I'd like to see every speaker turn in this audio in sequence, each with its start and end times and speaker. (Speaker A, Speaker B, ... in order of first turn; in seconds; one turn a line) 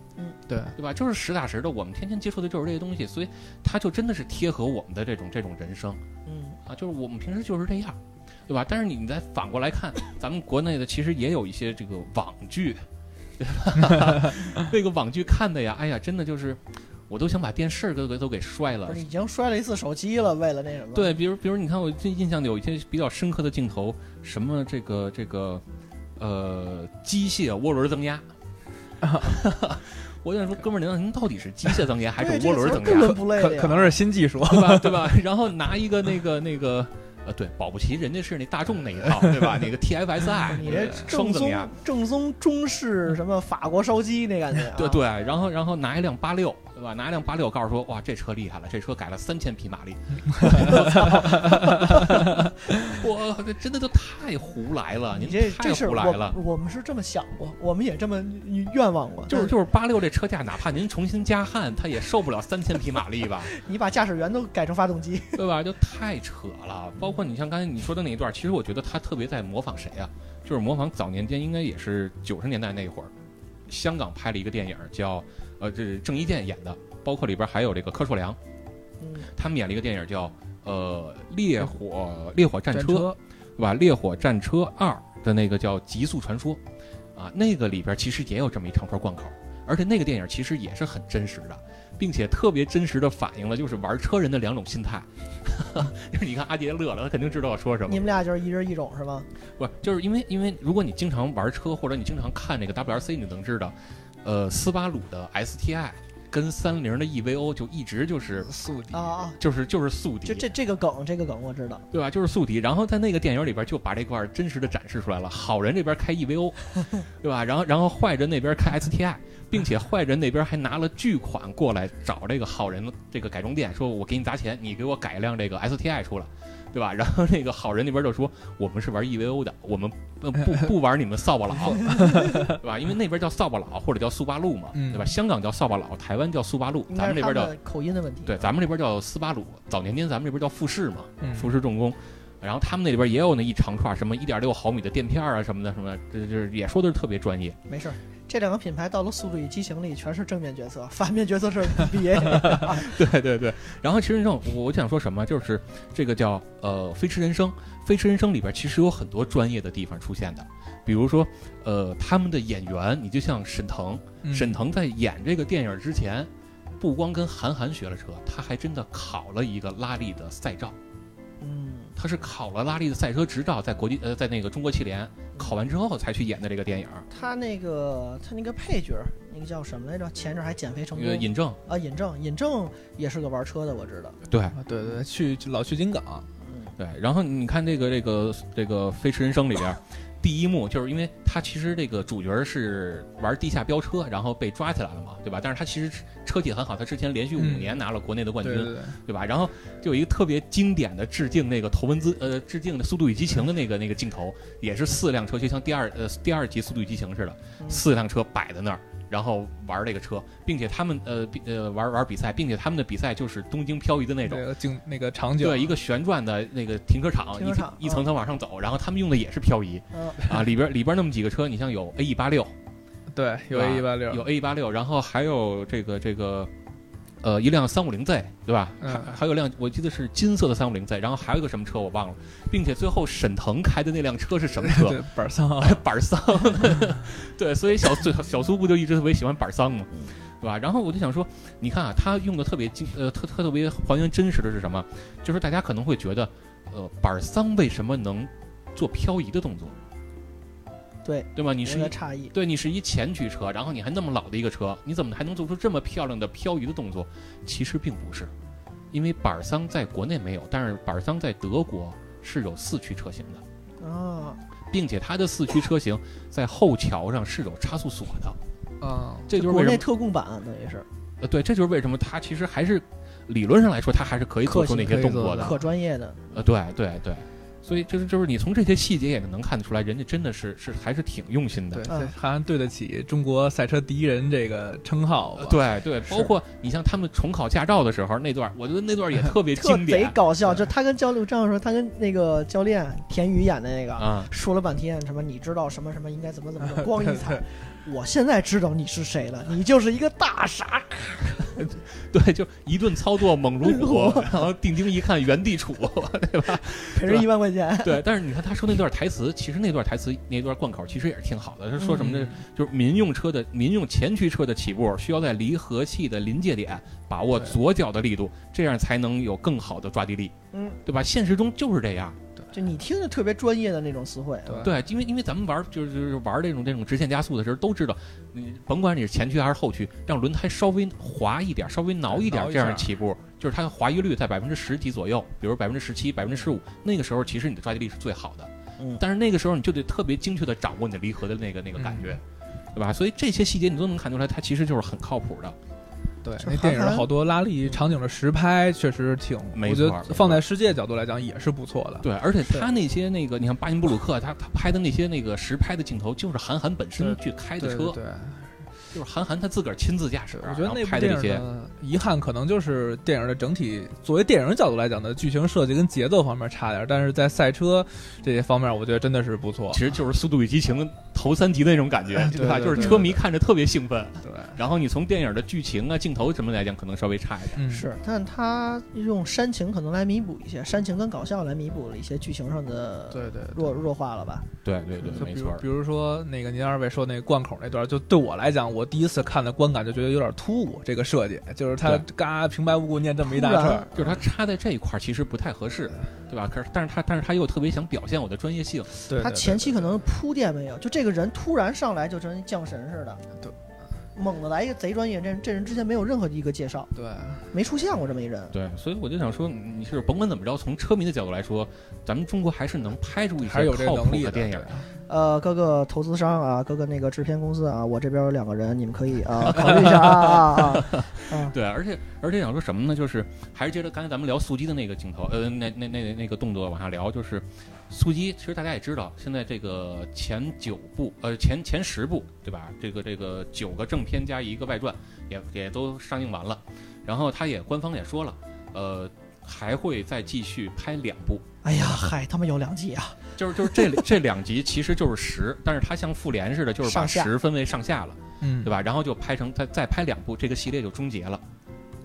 Speaker A: 0.5-0.8
Speaker B: 0.8-6.0
Speaker C: 6.3-6.6
Speaker B: 6.7-12.8
Speaker B: 13.4-19.0
Speaker C: 18.9-21.1
Speaker B: 20.9-25.6
Speaker B: 26.2-28.3
Speaker A: 29.0-29.4
Speaker B: 29.2-33.2
Speaker C: 32.2-34.0
Speaker A: 32.9-35.1
Speaker B: 34.4-41.7
Speaker C: 40.5-45.0
Speaker A: 40.7-41.0
Speaker B: 44.8-56.4
Speaker A: 50.3-52.0
Speaker C: 55.1-59.5
Speaker B: 59.3-63.5
Speaker C: 63.5-65.4
Speaker B: 65.3-73.1
Speaker B: 73.7-78.4
Speaker C: 79.0-79.3
Speaker B: 79.3-86.6
Speaker A: 82.7-83.2
Speaker B: 87.2-98.1
Speaker C: 97.9-99.3
Speaker B: 99.6-108.5
Speaker A: 108.4-109.1
Speaker C: 108.9-109.4
Speaker B: 109.4-110.5
Speaker C: 110.2-111.8
Speaker B: 111.9-137.5
Speaker A: 131.9-132.6
Speaker A: 134.7-135.1
Speaker C: 136.9-138.6
Speaker B: 138.3-147.6
Speaker A: 141.2-141.5
Speaker C: 147.7-152.9
Speaker B: 152.4-170.8
Speaker A: 164.2-164.6
Speaker C: 171.4-171.9
Speaker B: 172.0-177.1
Speaker C: 177.1-184.2
Speaker B: 181.0-181.6
Speaker B: 184.3-184.6
Speaker A: 184.5-186.3
Speaker C: 186.4-186.8
Speaker B: 186.8-214.4
Speaker A: 197.4-197.8
Speaker A: 198.4-199.0
Speaker A: 214.3-215.8
Speaker B: 215.4-222.5
Speaker C: 217.4-218.1
Speaker C: 219.9-220.3
Speaker A: 223.1-224.3
Speaker B: 223.5-226.5
Speaker B: 227.2-235.0
Speaker A: 228.8-229.2
Speaker A: 234.6-235.8
Speaker B: 235.6-249.8
Speaker C: 251.1-252.3
Speaker B: 251.4-258.3
Speaker B: 258.9-263.4
Speaker C: 263.8-264.4
Speaker B: 264.7-268.4
Speaker A: 268.8-269.3
Speaker B: 269.3-269.9
Speaker C: 269.3-270.9
Speaker B: 271.2-275.6
Speaker A: 274.4-275.6
Speaker C: 275.4-276.4
Speaker B: 276.3-281.9
Speaker A: 281.7-286.3
Speaker C: 281.9-282.1
Speaker B: 285.4-290.2
Speaker C: 289.6-301.6
Speaker B: 294.0-294.3
Speaker A: 296.8-297.4
Speaker B: 301.6-307.3
Speaker C: 303.6-304.3
Speaker C: 306.9-308.0
Speaker B: 307.8-320.3
Speaker C: 311.8-312.0
Speaker A: 311.9-312.4
Speaker C: 320.5-320.8
Speaker B: 320.9-322.2
Speaker C: 322.5-324.7
Speaker A: 324.5-324.7
Speaker B: 324.6-342.2
Speaker A: 332.1-332.9
Speaker A: 341.8-342.2
Speaker B: 342.8-345.6
Speaker A: 346.2-352.1
Speaker C: 346.4-347.1
Speaker B: 349.5-350.4
Speaker B: 352.0-358.0
Speaker A: 357.0-358.7
Speaker B: 358.9-361.4
Speaker A: 360.3-369.8
Speaker B: 369.7-377.6
Speaker A: 372.1-373.2
Speaker A: 374.2-374.6
Speaker A: 377.6-377.9
Speaker C: 377.7-384.5
Speaker A: 383.1-383.8
Speaker B: 384.6-385.6
Speaker A: 385.0-394.1
Speaker C: 393.2-393.9
Speaker B: 393.9-399.0
Speaker A: 399.1-399.9
Speaker C: 399.1-403.2
Speaker C: 404.1-406.9
Speaker A: 406.9-407.5
Speaker C: 407.5-408.5
Speaker B: 408.5-414.7
Speaker A: 413.4-414.9
Speaker C: 415.1-421.6
Speaker B: 419.5-442.1
Speaker C: 441.6-444.0
Speaker B: 443.4-451.4
Speaker C: 446.8-447.3
Speaker A: 448.4-448.8